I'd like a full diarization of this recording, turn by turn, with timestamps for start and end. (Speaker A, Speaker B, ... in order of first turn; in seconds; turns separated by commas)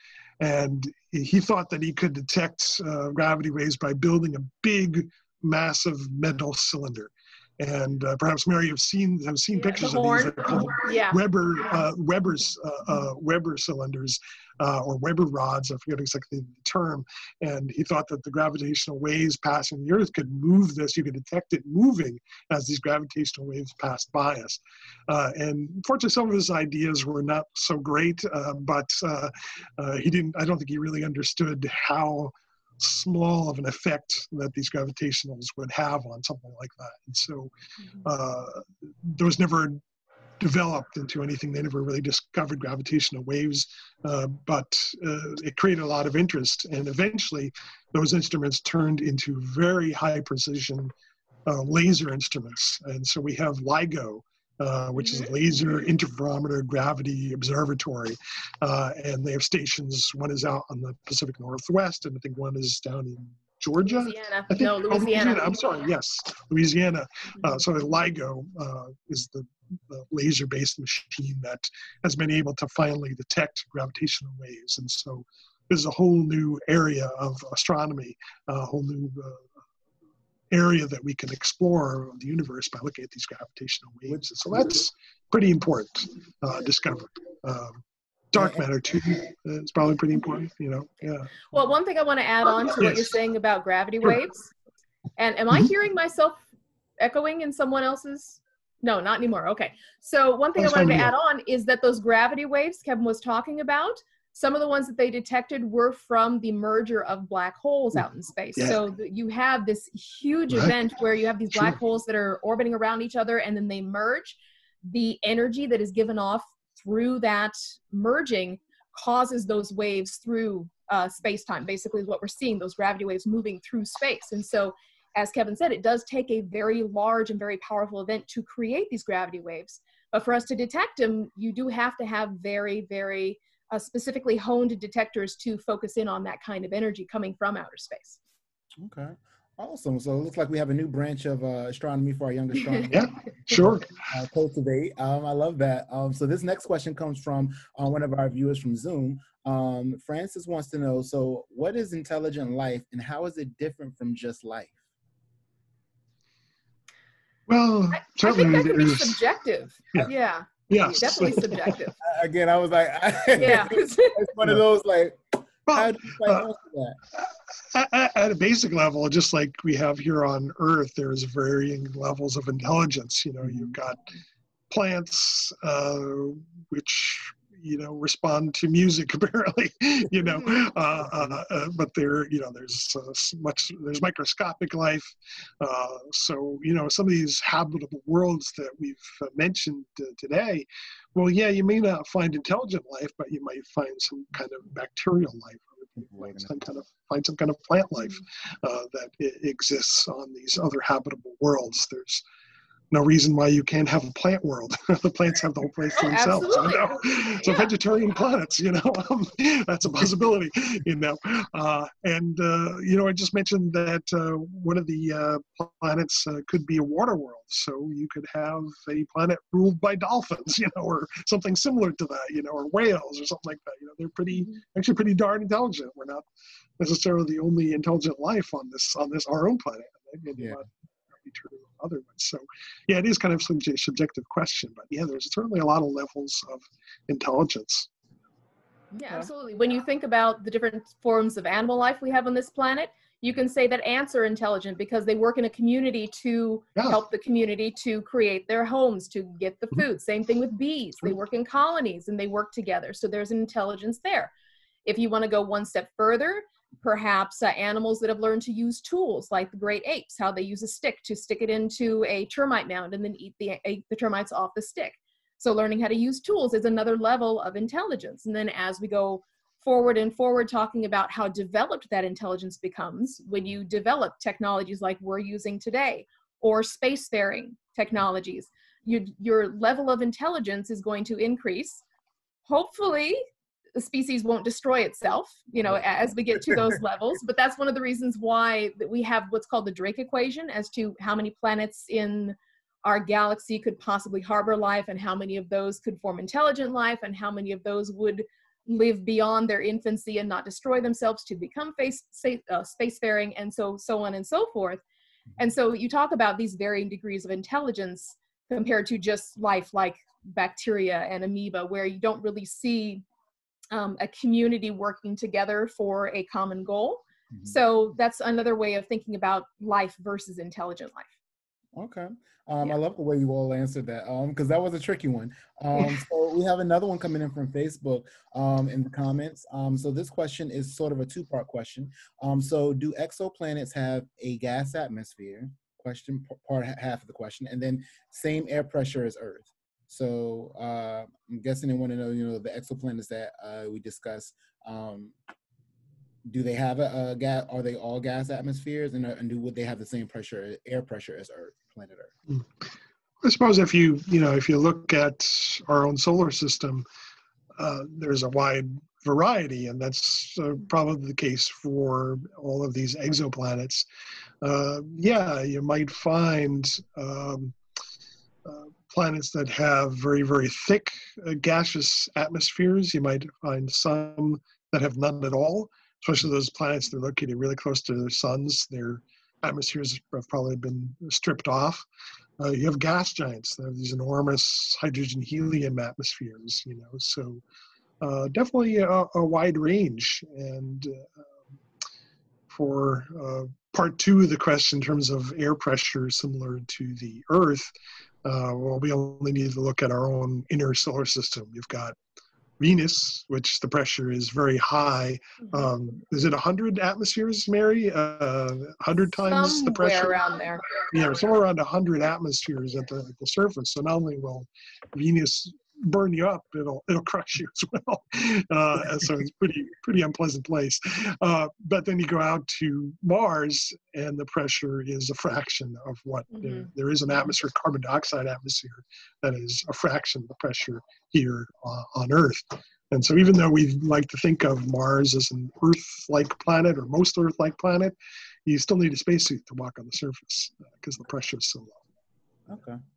Speaker A: 0.4-39.8, Speaker B: 9.5-11.2, Speaker A: 40.4-50.9, Speaker A: 51.5-79.5, Speaker B: 55.0-55.3, Speaker B: 63.9-65.8, Speaker A: 80.5-91.4, Speaker C: 88.4-88.6, Speaker B: 91.5-94.5, Speaker A: 92.8-93.1, Speaker B: 95.2-96.4, Speaker B: 97.0-138.2, Speaker A: 100.5-101.1, Speaker A: 108.5-108.8, Speaker A: 110.5-110.8, Speaker C: 138.8-154.7, Speaker A: 142.9-143.9, Speaker A: 157.5-159.2, Speaker B: 157.9-161.9, Speaker A: 159.8-160.1, Speaker A: 160.7-161.8, Speaker C: 162.0-167.0, Speaker B: 163.3-164.3, Speaker A: 165.7-166.5, Speaker A: 167.1-174.1, Speaker A: 174.7-202.2, Speaker C: 196.0-196.5, Speaker A: 202.9-226.3, Speaker B: 206.0-207.7, Speaker A: 226.8-237.9, Speaker B: 238.9-254.3, Speaker B: 254.8-281.8, Speaker B: 282.4-304.8, Speaker B: 305.4-313.0, Speaker B: 313.7-321.1, Speaker C: 321.8-345.1, Speaker C: 346.2-352.1, Speaker A: 353.2-356.9, Speaker A: 357.6-363.9, Speaker A: 364.4-367.6, Speaker A: 368.4-381.9, Speaker A: 382.4-387.4, Speaker A: 388.0-391.4, Speaker A: 392.5-397.7, Speaker A: 398.2-401.9, Speaker A: 402.6-410.2, Speaker B: 409.2-410.7, Speaker A: 410.8-437.9, Speaker B: 426.4-426.7, Speaker A: 438.4-441.8, Speaker C: 442.5-442.8